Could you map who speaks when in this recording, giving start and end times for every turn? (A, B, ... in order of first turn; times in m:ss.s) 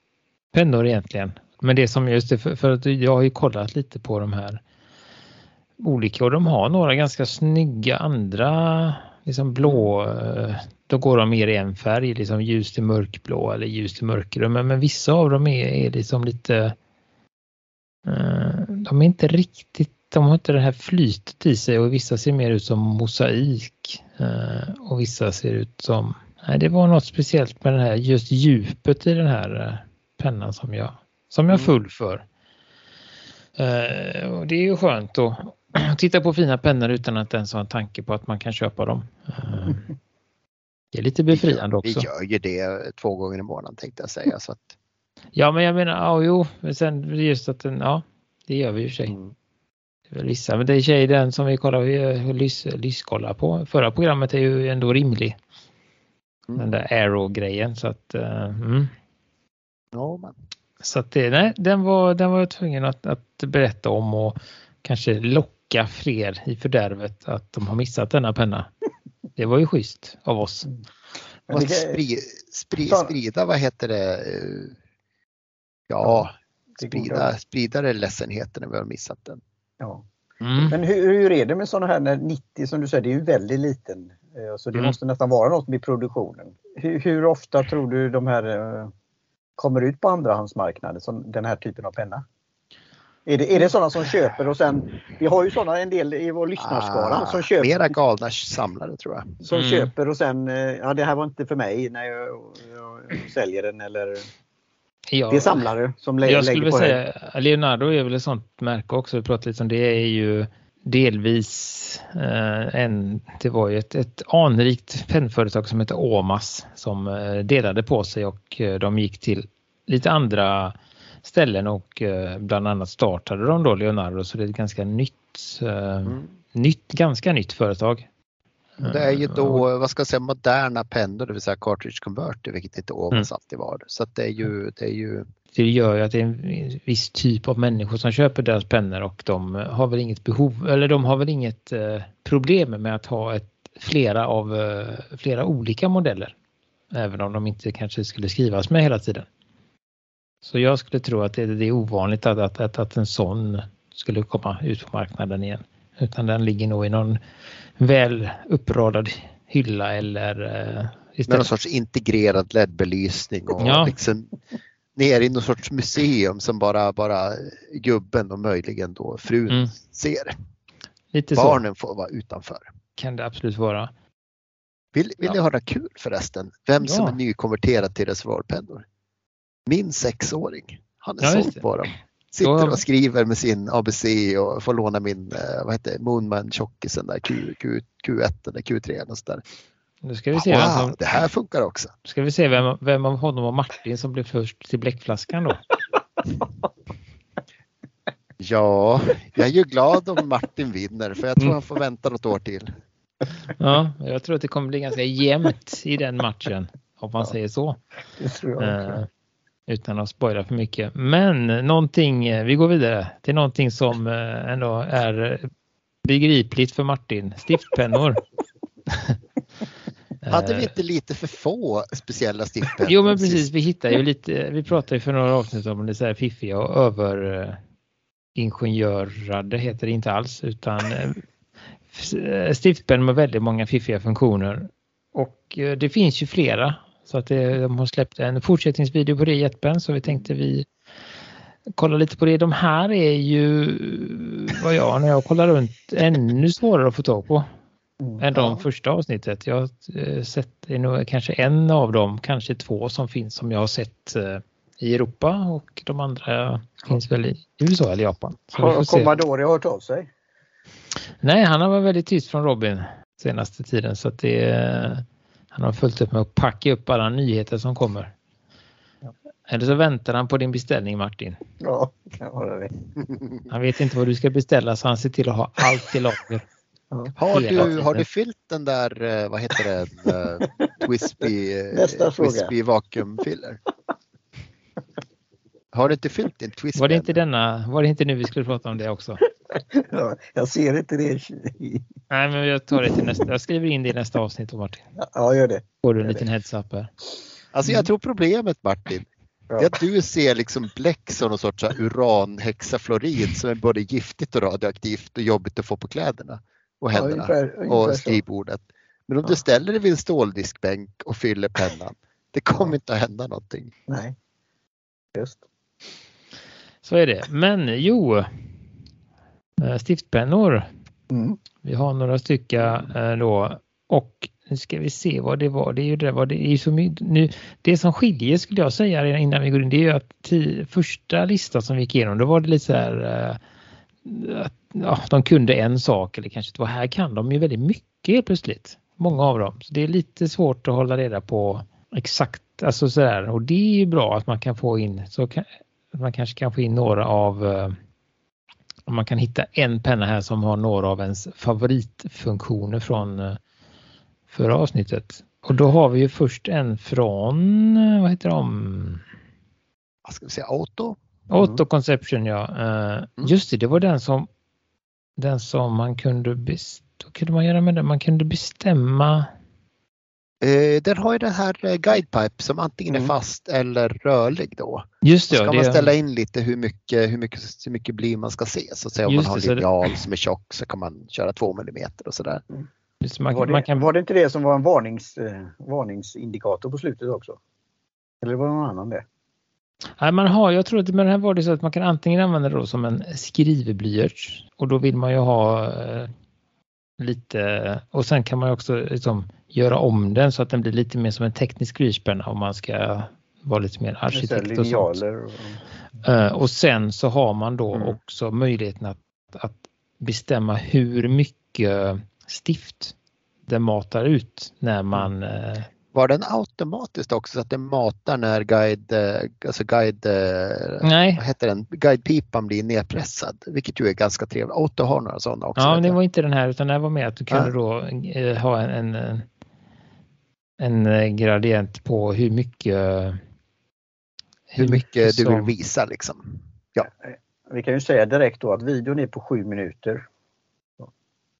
0:00.5-0:04.6 A
0:05.8-0:16.7 A
0:18.0-0:32.2 A
0:31.5-0:31.7 B
0:33.6-0:39.9 A
0:40.9-0:42.1 A
0:41.3-0:44.7 B
0:45.3-0:49.2 A
0:49.1-0:49.3 B
0:50.1-0:55.4 A
0:56.5-0:58.9 A
0:59.9-1:00.3 B
1:00.8-1:08.7 A
1:09.4-1:10.7 A
1:11.5-1:12.0 C
1:11.5-1:14.8 B
1:12.8-1:13.1 C
1:15.9-1:19.4 B
1:16.8-1:17.3 C
1:19.8-1:20.0 C
1:20.4-1:20.8 A
1:20.7-1:28.9 C
1:29.6-1:32.2 C
1:33.2-1:38.0 C
1:36.6-1:39.4 B
1:39.4-1:44.3 C
1:39.5-1:39.9 A
1:45.1-1:45.7 A
1:45.3-1:47.0 C
1:46.2-2:08.1 A
2:08.8-2:09.6 A
2:08.8-2:15.2 B
2:15.5-2:26.3 A
2:26.9-2:29.3 A
2:30.4-2:37.2 A
2:37.8-2:41.5 A
2:41.3-2:44.3 B
2:43.6-2:43.9 A
2:44.9-2:50.3 B
2:51.1-2:51.6 A
2:51.3-2:52.7 B
2:53.0-2:53.9 A
2:54.9-2:58.8 B
2:56.8-2:57.2 A
2:59.7-3:09.4 B
3:01.2-3:01.6 A
3:02.4-3:02.8 A
3:10.0-3:11.0 A
3:10.3-3:11.9 B
3:12.0-3:15.6 A
3:18.4-3:22.7 B
3:23.6-3:27.8 A
3:28.2-3:29.0 C
3:28.6-3:29.1 A
3:29.7-3:35.5 A
3:36.0-3:38.2 A
3:38.9-3:39.2 A
3:40.2-3:40.7 A
3:40.3-3:43.5 B
3:42.8-3:47.6 A
3:48.3-3:51.2 A
3:51.9-4:00.7 A
4:01.8-4:07.5 A
4:08.2-4:19.2 A
4:08.3-4:08.6 B
4:18.6-4:20.1 C
4:21.2-4:28.1 A
4:29.5-4:31.4 A
4:31.6-4:32.7 C
4:33.5-4:36.5 A
4:36.9-4:37.7 C
4:37.2-4:43.6 B
4:37.3-4:38.0 A
4:41.7-4:42.5 C
4:45.7-4:47.2 B
4:46.8-4:49.2 A
4:49.5-4:51.8 C
4:52.1-4:54.8 A
4:55.0-4:56.2 C
4:55.8-4:56.9 A
4:57.5-5:13.7 B
5:06.9-5:08.2 C
5:13.9-5:14.1 C
5:15.1-5:15.4 C
5:16.8-5:18.3 A
5:19.6-5:20.6 A
5:21.1-5:21.4 C
5:21.6-5:33.4 A
5:34.0-5:47.8 A
5:48.9-5:53.4 A
5:54.3-5:59.0 A
6:00.0-6:01.6 B
6:01.3-6:04.3 A
6:05.2-6:09.3 A
6:10.4-6:22.4 B
6:12.9-6:13.2 C
6:15.0-6:15.9 A
6:19.0-6:19.7 A
6:23.0-6:23.9 A
6:23.3-6:27.4 C
6:28.2-6:29.0 C
6:30.0-6:36.1 A
6:37.0-6:45.0 A
6:44.1-6:45.6 C
6:46.0-6:52.9 A
6:53.5-6:55.7 A
6:55.9-7:06.0 B
7:00.8-7:01.2 A
7:05.6-7:09.3 A
7:10.6-7:13.2 A
7:14.5-7:15.5 A
7:14.5-7:16.9 B
7:17.5-7:20.0 C